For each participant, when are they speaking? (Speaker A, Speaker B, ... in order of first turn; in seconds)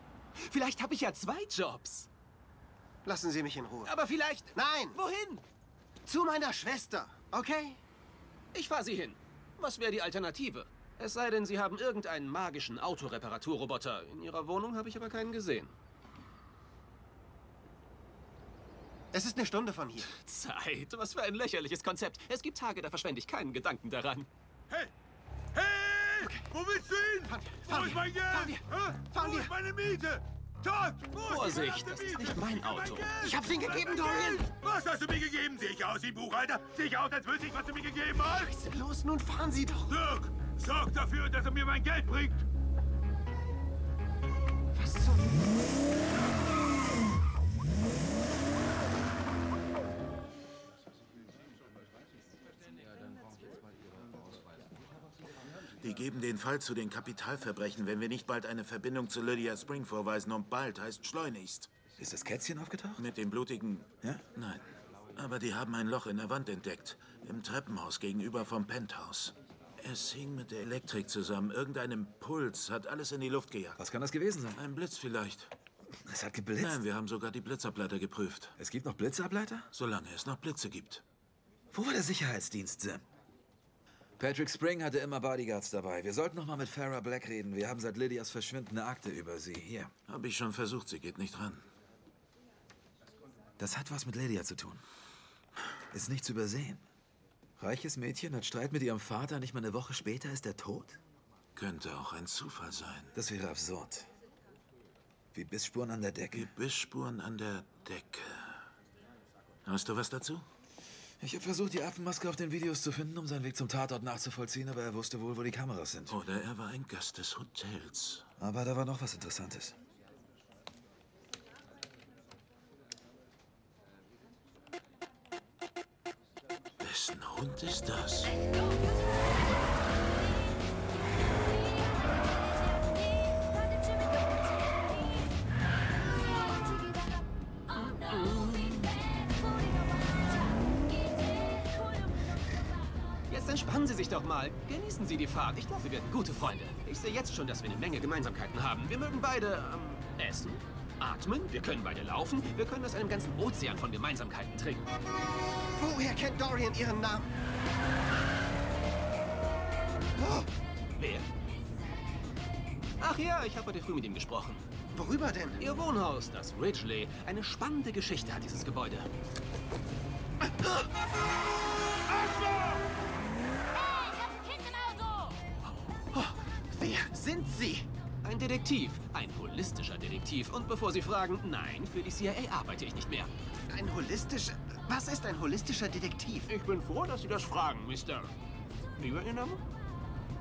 Speaker A: 0.4-2.1, 3.8-5.4, 8.5-15.7, 20.1-24.3, 31.2-33.1, 137.8-138.9, 143.3-154.9, 161.0-161.3, 163.0-164.6, 165.6-169.1, 178.2-183.3, 186.5-188.3, 189.0-189.6
Speaker B: 3.0-3.9, 4.5-5.0, 6.0-7.8, 19.1-20.1, 26.2-26.5, 27.3-29.5, 33.2-34.5, 38.3-39.9, 44.7-45.4, 155.8-157.3, 164.9-165.6, 176.1-177.9, 183.7-186.5
Speaker C: 25.5-38.5, 39.9-42.4, 172.1-172.8
Speaker D: 55.8-61.7, 63.0-64.6, 65.1-73.8, 74.5-75.5, 76.6-78.5, 79.7-81.0, 90.1-91.6, 101.5-103.1, 106.4-108.7, 109.6-110.4, 116.1-118.3, 126.8-128.4
Speaker E: 62.0-63.0, 73.8-74.6, 76.1-76.8, 78.6-79.7, 81.7-83.0, 84.2-89.9, 93.6-94.8, 95.9-96.8, 97.6-101.0, 103.1-104.1, 105.3-106.5, 111.2-116.2, 118.4-119.8